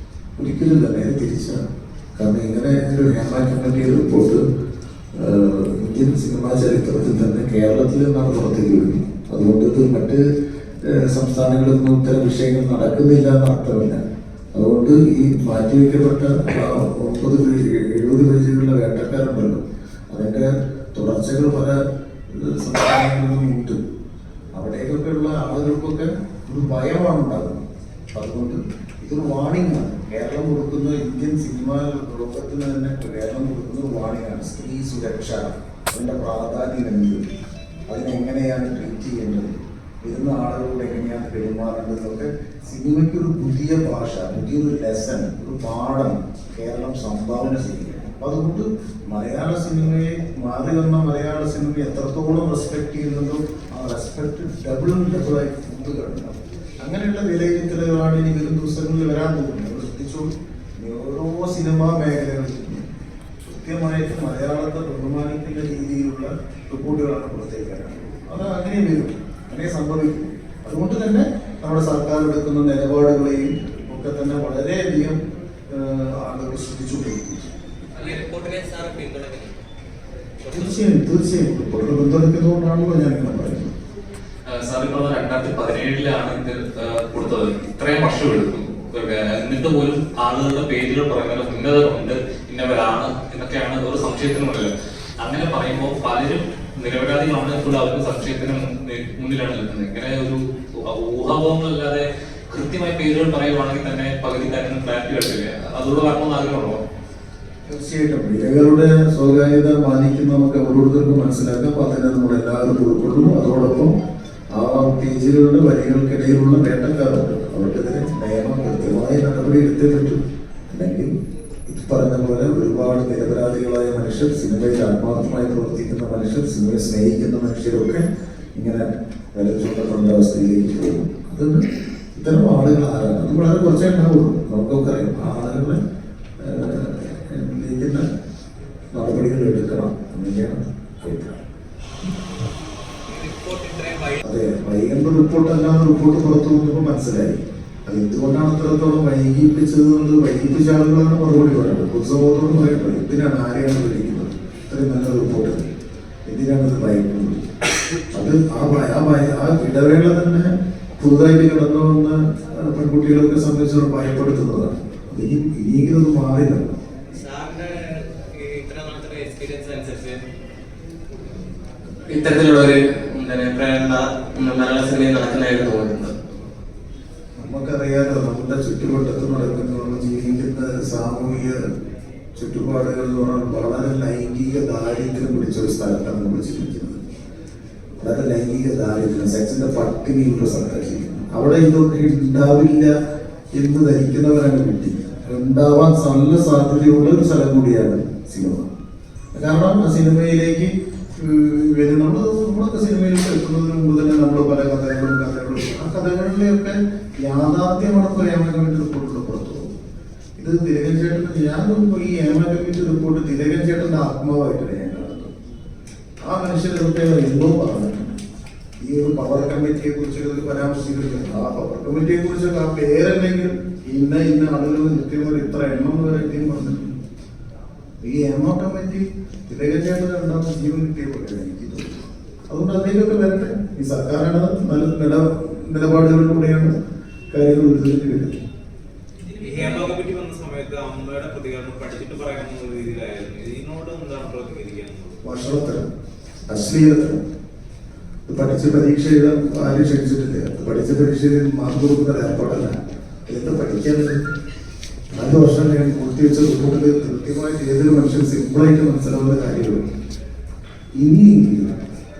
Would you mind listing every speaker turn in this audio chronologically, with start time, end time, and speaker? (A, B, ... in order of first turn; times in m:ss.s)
0:00.4-0:01.6 A
0:02.2-0:04.4 A
0:05.2-0:10.2 A
0:10.8-0:14.0 A
0:14.5-0:21.8 A
0:22.3-0:23.8 A
0:24.5-0:37.2 A
0:37.9-1:02.8 A
1:03.5-1:15.2 A
1:15.7-1:17.5 A
1:18.0-1:19.6 B
1:20.4-1:20.8 B
1:20.5-1:23.7 A
1:24.5-1:46.8 C
1:47.7-1:53.9 A
1:54.6-2:00.2 A
2:00.7-2:01.1 A
2:01.7-2:08.0 A
2:08.5-2:11.6 A
2:12.2-2:15.8 A
2:16.4-2:18.0 A
2:18.9-2:21.4 A
2:23.1-2:24.2 B
2:24.2-2:35.6 A
2:36.3-2:37.4 A
2:38.1-2:46.7 A
2:47.1-2:50.2 B
2:52.1-2:56.1 B
2:57.4-3:01.6 A
3:02.4-3:07.0 A
3:08.0-3:12.9 A
3:13.5-3:18.7 A
3:19.3-3:29.7 A
3:30.4-3:35.3 A
3:36.2-3:38.2 A
3:38.8-3:46.9 A
3:48.0-3:56.7 A
3:57.3-3:58.4 A
3:59.4-4:05.2 B
4:05.2-4:05.9 A
4:06.5-4:07.2 A
4:08.3-4:12.7 A
4:13.3-4:14.2 A
4:15.1-4:19.8 A
4:21.0-4:21.8 A